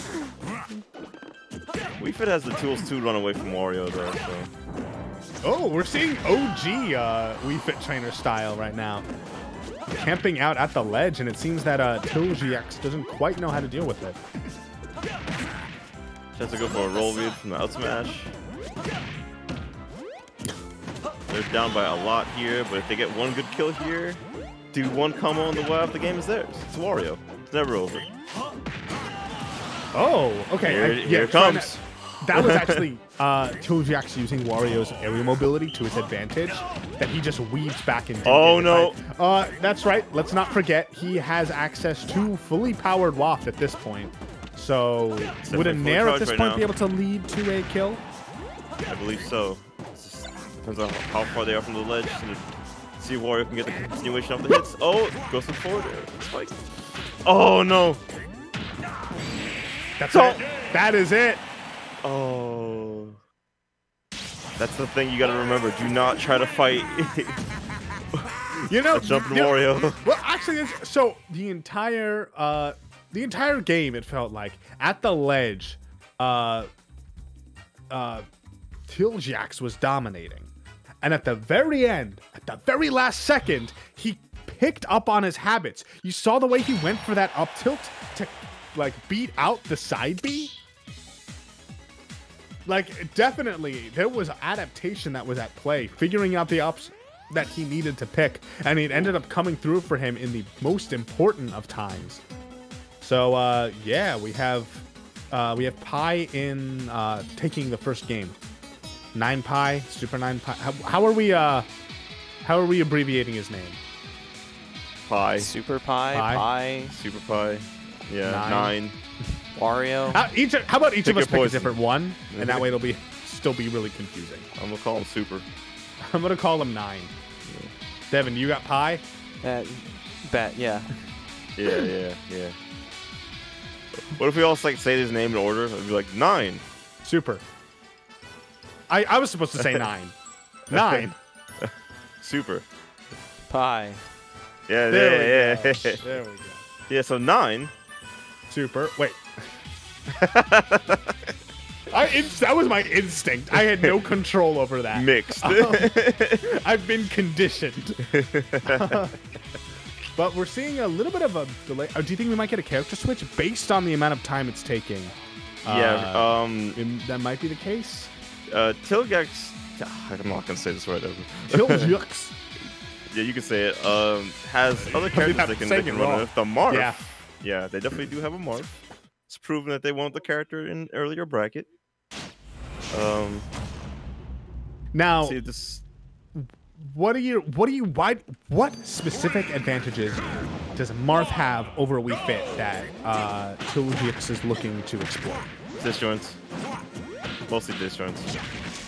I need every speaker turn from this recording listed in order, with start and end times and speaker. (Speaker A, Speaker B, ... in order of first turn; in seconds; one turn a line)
Speaker A: 2.0-4.5
Speaker B: 5.4-9.1
Speaker B: 10.0-14.2
Speaker A: 16.4-18.3
Speaker A: 21.3-24.2
Speaker A: 24.7-28.1
Speaker B: 29.9-48.0
Speaker A: 30.6-31.8
Speaker A: 32.4-32.8
Speaker A: 38.2-39.0
Speaker A: 45.4-46.7
Speaker A: 48.9-56.6
Speaker A: 57.2-58.0
Speaker B: 60.0-61.4
Speaker A: 60.1-60.5
Speaker A: 62.0-63.2
Speaker A: 64.6-67.4
Speaker B: 68.7-76.7
Speaker A: 68.9-70.0
Speaker B: 77.9-78.2
Speaker B: 78.9-80.5
Speaker B: 81.0-90.5
Speaker B: 92.7-102.2
Speaker B: 103.0-108.4
Speaker B: 109.1-111.7
Speaker B: 112.4-113.8
Speaker A: 115.1-115.5
Speaker C: 115.4-116.9
Speaker B: 116.1-116.5
Speaker A: 116.9-119.0
Speaker B: 118.2-118.8
Speaker C: 119.6-120.2
Speaker B: 120.1-124.5
Speaker A: 121.0-121.8
Speaker A: 122.3-122.7
Speaker A: 124.6-125.5
Speaker B: 126.1-127.1
Speaker A: 127.5-127.7
Speaker B: 128.1-129.0
Speaker C: 129.4-130.9
Speaker A: 131.6-132.6
Speaker A: 134.1-136.6
Speaker B: 137.0-137.4
Speaker B: 138.9-140.1
Speaker B: 140.7-141.2
Speaker A: 140.7-141.0
Speaker A: 141.6-142.7
Speaker C: 143.5-144.0
Speaker A: 144.7-146.0
Speaker B: 144.9-146.6
Speaker A: 146.9-147.7
Speaker B: 148.5-149.2
Speaker A: 150.2-151.1
Speaker B: 151.9-158.0
Speaker A: 154.9-156.4
Speaker A: 158.1-159.0
Speaker B: 158.7-159.2
Speaker B: 160.2-168.1
Speaker A: 165.7-166.8
Speaker A: 168.5-171.9
Speaker B: 171.5-172.3
Speaker A: 173.1-178.7
Speaker B: 175.1-177.0
Speaker A: 179.3-181.7
Speaker A: 182.9-183.5
Speaker B: 184.9-185.4
Speaker A: 185.2-185.8
Speaker B: 186.3-195.5
Speaker A: 195.8-196.4
Speaker A: 197.5-198.3